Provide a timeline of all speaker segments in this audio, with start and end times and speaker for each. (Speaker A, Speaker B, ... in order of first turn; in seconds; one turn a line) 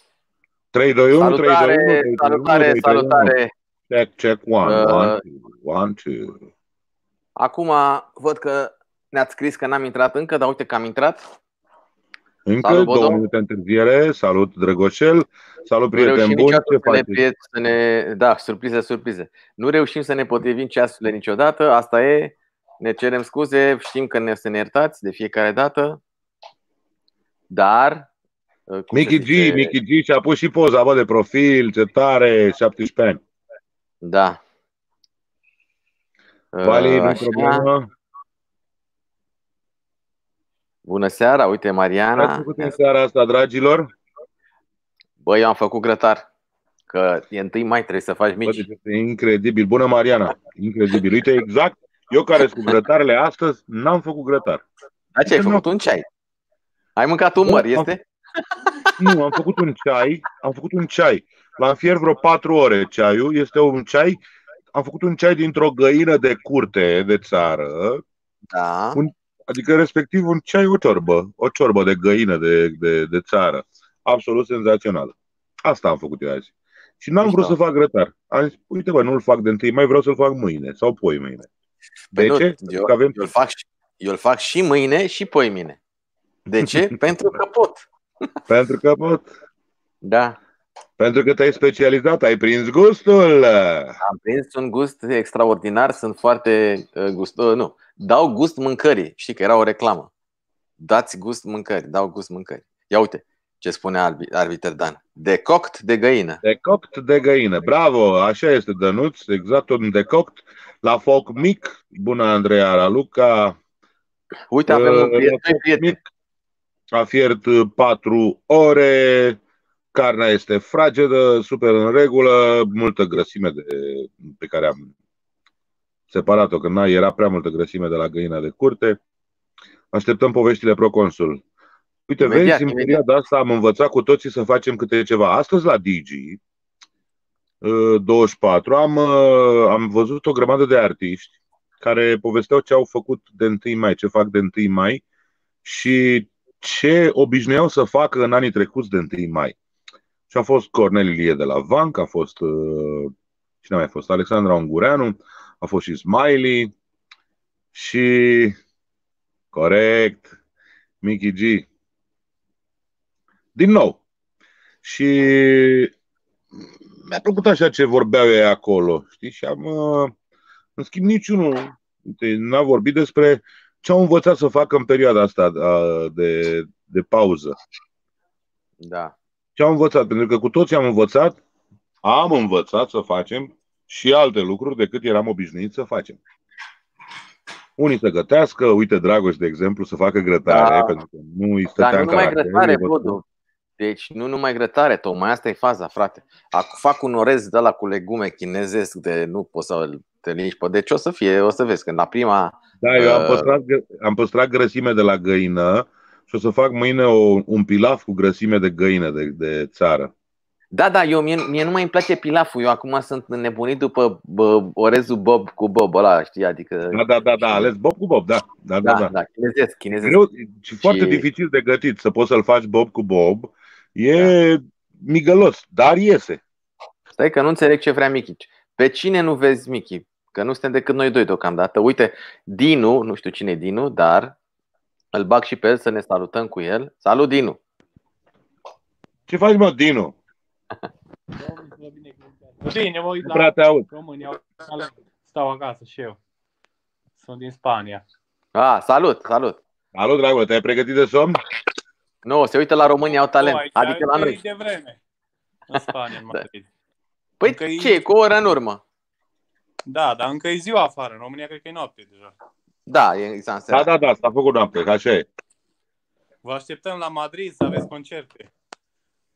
Speaker A: 0.7-3.3
Speaker B: 1.2-3.5
Speaker A: 3.9-6.5
Speaker B: 4.6-5.2
Speaker B: 7.4-11.3
Speaker A: 12.5-17.2
Speaker B: 12.6-13.2
Speaker B: 15.9-26.0
Speaker B: 27.5-28.1
Speaker B: 28.7-29.8
Speaker A: 28.9-33.2
Speaker B: 34.0-34.4
Speaker B: 36.5-37.7
Speaker A: 36.6-37.9
Speaker B: 40.8-42.7
Speaker A: 42.2-43.9
Speaker B: 45.2-46.2
Speaker B: 46.9-48.6
Speaker A: 48.5-54.6
Speaker B: 55.2-56.0
Speaker A: 55.2-55.6
Speaker B: 57.0-58.0
Speaker A: 57.5-57.9
Speaker A: 59.0-64.2
Speaker A: 64.7-68.0
Speaker B: 68.5-69.0
Speaker A: 69.0-81.5
Speaker B: 77.2-77.5
Speaker B: 82.1-85.8
Speaker A: 82.1-83.3
Speaker B: 86.5-87.8
Speaker A: 88.5-89.3
Speaker B: 90.0-90.4
Speaker A: 91.0-93.9
Speaker B: 94.0-100.1
Speaker B: 100.8-106.4
Speaker A: 106.4-113.6
Speaker B: 114.5-116.0
Speaker A: 114.7-116.0
Speaker A: 116.9-119.4
Speaker A: 119.9-124.9
Speaker A: 126.1-129.0
Speaker A: 129.9-131.4
Speaker A: 132.1-136.4
Speaker B: 132.2-133.0
Speaker A: 137.6-145.0
Speaker A: 145.6-149.5
Speaker A: 150.3-156.7
Speaker A: 157.7-158.6
Speaker A: 159.5-160.3
Speaker A: 161.0-161.7
Speaker A: 163.5-164.0
Speaker A: 164.8-165.9
Speaker A: 167.0-170.1
Speaker A: 170.8-177.5
Speaker B: 178.8-179.2
Speaker A: 179.6-181.4
Speaker A: 182.0-186.2
Speaker A: 187.8-193.2
Speaker B: 190.5-191.0
Speaker B: 191.8-193.2
Speaker B: 193.8-203.5
Speaker A: 202.8-210.1
Speaker B: 210.7-217.7
Speaker A: 216.9-219.1
Speaker B: 218.8-220.2
Speaker A: 220.0-226.4
Speaker B: 220.8-221.2
Speaker B: 227.2-234.3
Speaker B: 235.1-237.6
Speaker A: 239.3-240.2
Speaker C: 241.4-246.2
Speaker A: 243.2-243.8
Speaker C: 247.2-248.0
Speaker B: 248.5-249.6
Speaker A: 249.9-251.4
Speaker B: 252.2-254.4
Speaker C: 253.3-255.0
Speaker C: 255.7-256.7
Speaker B: 257.4-258.8
Speaker C: 257.4-258.0
Speaker C: 259.9-262.4
Speaker B: 262.9-263.9
Speaker A: 263.7-265.3
Speaker C: 266.4-268.5